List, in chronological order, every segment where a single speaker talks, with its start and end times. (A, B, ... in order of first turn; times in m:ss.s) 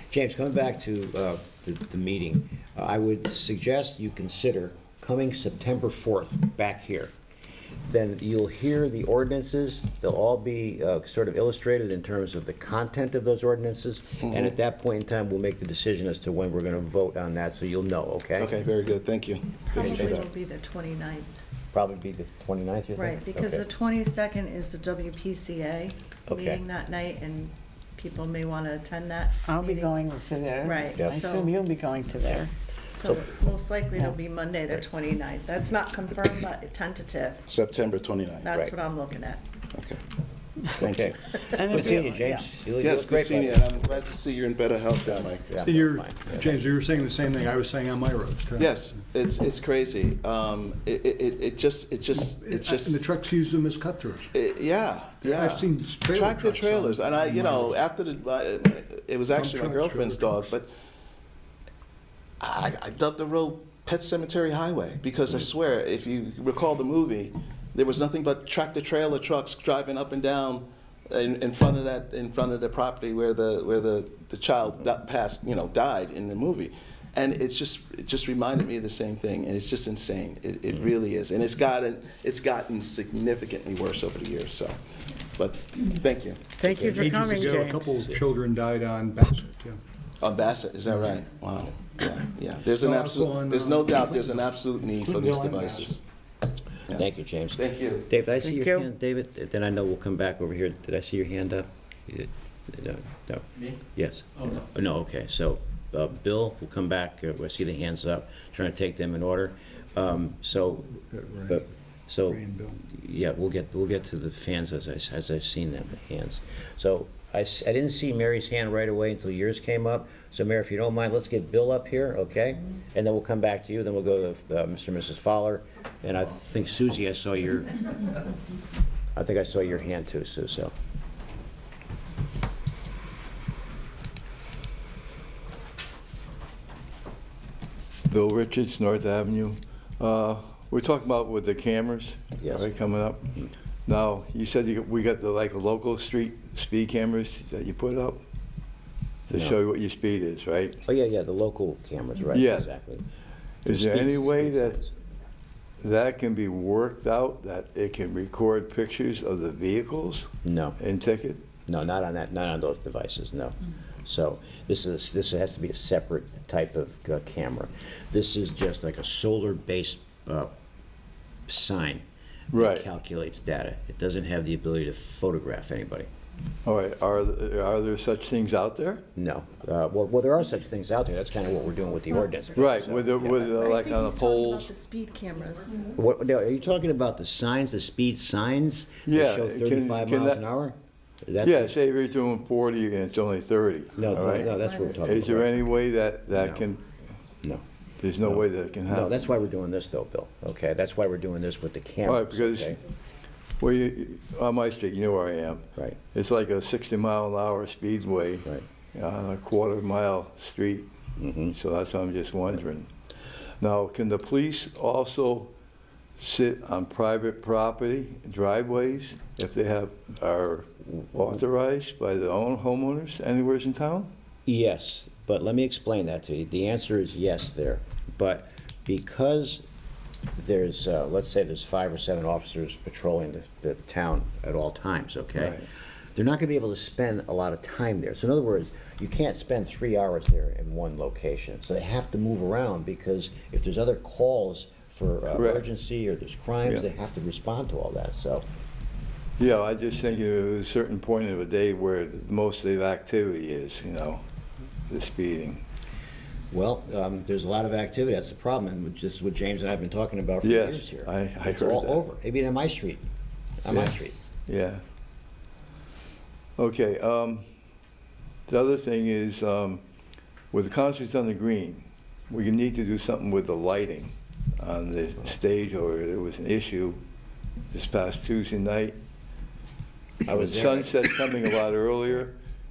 0:00.1-0:07.1 A
0:07.9-0:18.5 A
0:18.4-0:20.3 B
0:19.7-0:21.3 C
0:19.8-0:20.2 A
0:21.7-0:23.6 A
0:23.0-0:30.0 C
0:26.3-0:26.6 A
0:29.5-0:32.5 D
0:30.6-0:31.6 C
0:30.9-0:31.2 A
0:32.9-0:37.4 C
0:37.5-0:38.5 B
0:38.4-0:39.4 C
0:39.7-0:40.0 B
0:40.8-0:41.2 B
0:40.8-0:44.0 A
0:41.5-0:42.4 D
0:41.7-0:42.0 B
0:42.8-0:45.6 B
0:45.1-0:46.6 A
0:45.6-0:48.9 E
0:48.6-0:53.1 B
0:52.2-0:54.3 E
0:54.3-1:00.7 B
0:55.3-0:57.8 E
0:59.3-1:00.4 E
1:02.4-1:24.8 B
1:25.4-1:26.6 B
1:26.6-1:28.2 D
1:26.6-1:27.5 A
1:26.9-1:29.8 E
1:30.2-1:36.0 B
1:32.8-1:34.4 E
1:35.0-1:35.9 E
1:36.9-2:07.8 A
1:37.6-1:38.0 B
1:38.4-1:38.9 D
1:51.1-1:51.6 E
1:52.3-1:52.8 E
2:09.2-2:10.7 A
2:18.1-2:28.2 F
2:22.4-2:22.7 A
2:29.3-2:30.8 F
2:30.9-2:33.0 A
2:32.3-2:32.7 F
2:33.6-2:34.8 F
2:33.7-2:34.9 A
2:35.8-2:41.4 F
2:40.4-2:40.8 A
2:41.7-2:50.5 A
2:51.5-2:56.1 A
2:52.5-2:52.8 F
2:56.6-2:59.0 F
2:59.2-3:03.6 A
3:02.1-3:05.8 C
3:02.6-3:04.7 F
3:05.9-3:11.8 A
3:09.1-3:10.4 F
3:11.4-3:16.8 F
3:14.0-3:15.6 A
3:14.4-3:15.1 C
3:16.3-3:16.6 A
3:18.0-3:19.2 F
3:18.2-3:22.8 A
3:22.0-3:22.7 F
3:23.6-3:30.9 F
3:31.2-3:31.5 A
3:31.5-3:32.9 F
3:33.6-3:35.5 F
3:36.2-3:44.1 F
3:44.5-3:49.6 A
3:50.4-4:08.4 A
3:55.4-3:55.6 F
4:05.3-4:05.7 F
4:09.4-4:14.2 F
4:14.9-4:15.6 F
4:16.5-4:23.0 A
4:20.4-4:22.0 F
4:23.6-4:24.2 A
4:23.7-4:24.8 F
4:26.6-4:27.5 F
4:28.5-4:29.8 F
4:30.5-4:37.0 F
4:37.7-4:39.0 F
4:40.3-4:41.0 A
4:40.3-4:42.3 F